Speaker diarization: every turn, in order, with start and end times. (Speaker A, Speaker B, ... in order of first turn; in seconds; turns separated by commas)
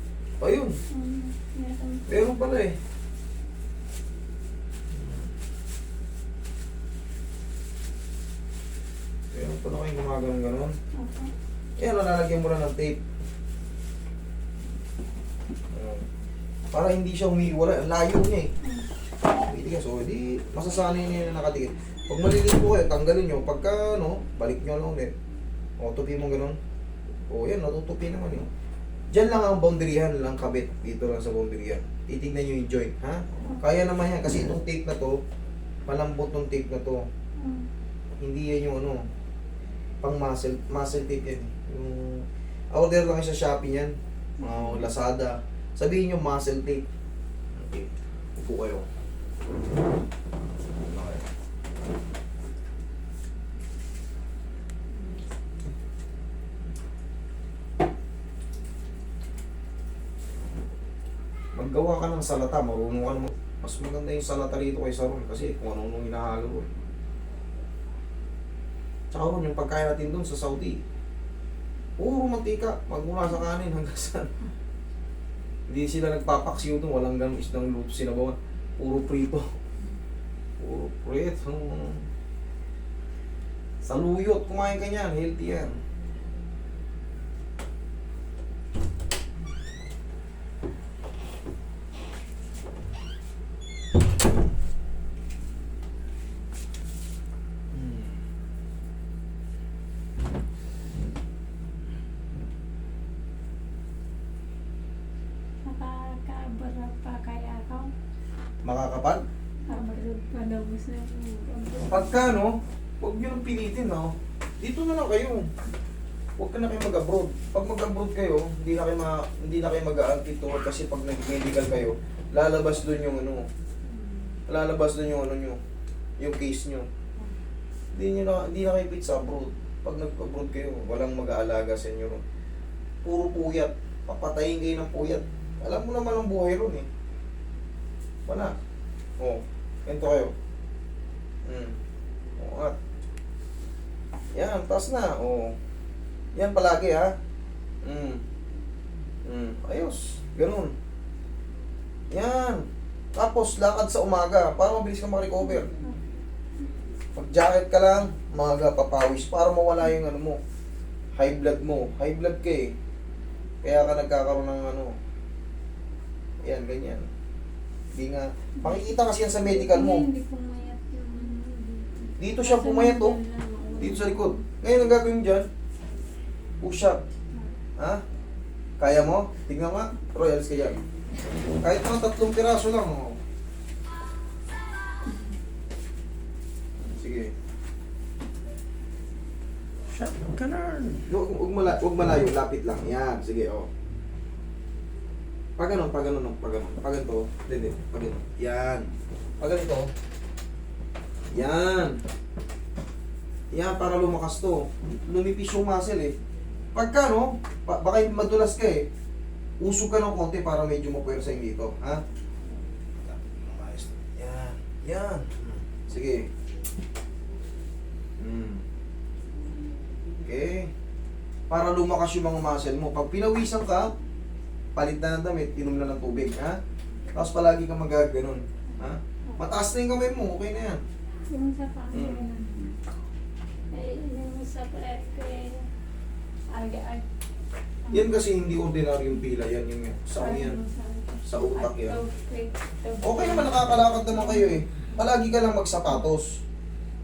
Speaker A: 0.4-0.8, Speaker B: 0.9-2.4, Speaker A: 2.1-2.7, Speaker A: 4.9-5.2, Speaker A: 9.3-10.8, Speaker B: 10.9-11.3, Speaker A: 11.8-13.0, Speaker A: 15.7-16.0, Speaker A: 16.7-18.5, Speaker A: 19.4-25.1, Speaker A: 25.8-26.6, Speaker A: 27.3-28.5, Speaker A: 29.1-35.2, Speaker A: 35.9-37.0, Speaker B: 37.4-37.7, Speaker A: 38.2-39.0, Speaker A: 40.0-46.8, Speaker B: 44.4-44.9, Speaker A: 47.5-48.9, Speaker A: 50.7-51.2, Speaker A: 61.5-66.7, Speaker A: 69.1-70.8, Speaker A: 72.0-74.3, Speaker A: 75.7-79.5, Speaker A: 80.6-82.0, Speaker A: 83.8-85.7, Speaker A: 97.7-98.2, Speaker B: 105.6-107.9, Speaker A: 108.6-109.2, Speaker B: 109.7-112.4, Speaker A: 111.9-115.5, Speaker A: 116.4-123.5, Speaker B: 123.9-124.3, Speaker A: 124.5-125.6, Speaker A: 126.2-126.9, Speaker A: 127.9-132.2, Speaker A: 133.0-136.9, Speaker A: 138.3-138.5, Speaker A: 139.2-140.3, Speaker A: 141.4-141.8, Speaker A: 142.4-142.7, Speaker A: 144.3-145.5, Speaker A: 146.3-147.1, Speaker A: 147.8-148.2, Speaker A: 149.2-150.7, Speaker A: 152.1-152.6, Speaker A: 153.2-155.7, Speaker B: 155.5-156.0, Speaker A: 157.1-160.4, Speaker A: 161.2-162.7, Speaker A: 163.6-164.9, Speaker A: 166.4-167.1, Speaker A: 167.9-170.1, Speaker B: 168.6-174.4, Speaker A: 172.2-173.2, Speaker A: 173.8-175.5, Speaker A: 176.6-177.0, Speaker A: 178.8-180.8, Speaker A: 181.6-183.2, Speaker A: 186.8-187.3, Speaker A: 189.9-193.7, Speaker A: 195.6-199.9, Speaker A: 201.3-202.0, Speaker A: 203.5-206.2, Speaker A: 206.7-208.8, Speaker A: 209.6-212.0, Speaker A: 213.0-216.3, Speaker A: 218.2-218.6, Speaker A: 220.2-220.7, Speaker A: 221.5-223.9, Speaker A: 224.7-226.6, Speaker A: 227.1-230.8, Speaker B: 228.8-229.4, Speaker B: 231.3-232.8, Speaker A: 231.9-232.2, Speaker B: 233.7-235.7, Speaker B: 236.5-237.0, Speaker B: 237.9-238.3, Speaker A: 237.9-240.6, Speaker B: 240.2-245.1, Speaker A: 241.2-242.0, Speaker A: 243.0-246.4